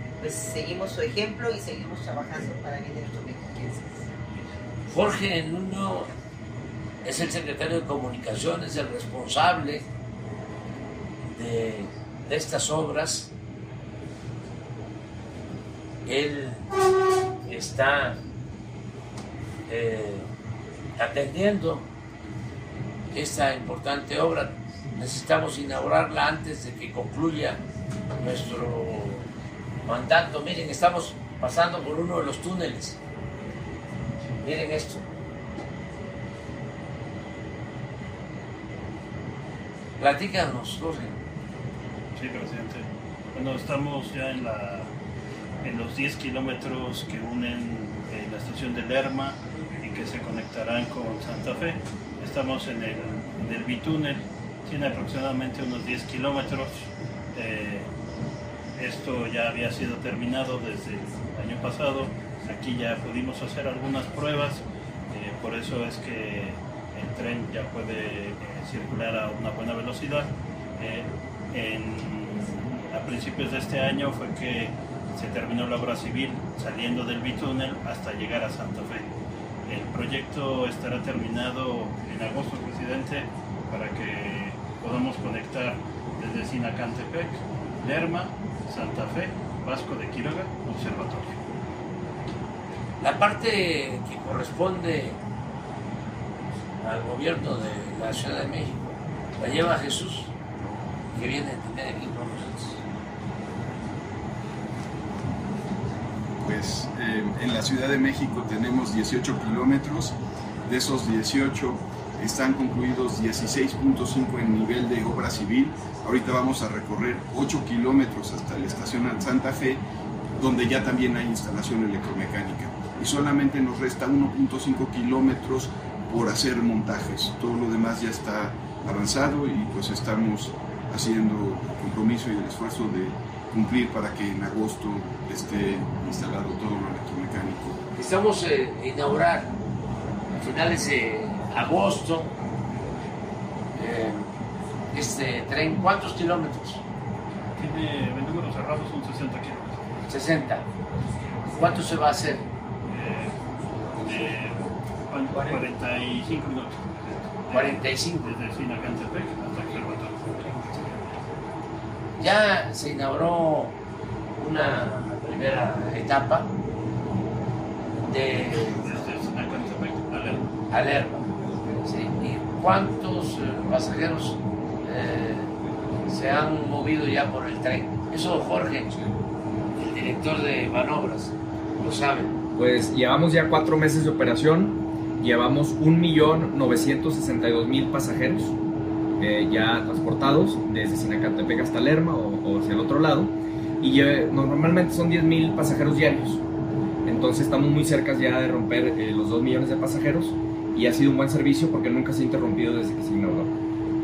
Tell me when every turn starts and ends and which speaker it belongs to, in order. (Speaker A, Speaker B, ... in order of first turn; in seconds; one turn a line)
Speaker A: 0.2-4.0
Speaker B: 4.9-6.1
Speaker B: 7.0-9.9
Speaker B: 11.2-13.3
Speaker B: 16.1-16.8
Speaker B: 17.4-18.2
Speaker B: 19.7-20.3
Speaker B: 21.0-21.9
Speaker B: 23.1-27.6
Speaker B: 28.2-29.3
Speaker B: 29.9-33.0
Speaker B: 34.4-35.0
Speaker B: 40.0-41.2
Speaker C: 42.2-44.9
Speaker C: 45.6-57.9
Speaker C: 58.8-79.2
Speaker C: 79.7-91.4
Speaker B: 93.0-95.2
Speaker B: 96.8-100.3
Speaker B: 101.1-102.8
Speaker D: 106.4-110.2
Speaker D: 110.7-119.8
Speaker D: 120.4-137.8
Speaker B: 137.9-139.5
Speaker B: 140.4-142.3
Speaker B: 143.8-144.3
Speaker B: 144.9-146.8
Speaker C: 147.6-149.8
Speaker B: 150.1-150.7
Speaker B: 151.5-152.4
Speaker C: 152.9-153.4
Speaker C: 153.9-161.0
Speaker B: 157.5-158.3
Speaker B: 162.2-163.8
Speaker B: 164.4-166.5
Speaker B: 168.0-168.8
Speaker C: 168.8-170.4
Speaker B: 170.7-171.3
Speaker B: 171.8-175.6
Speaker B: 176.1-178.9
Speaker B: 179.8-182.3
Speaker E: 182.6-188.5
Speaker E: 189.2-196.4
Speaker E: 197.1-203.5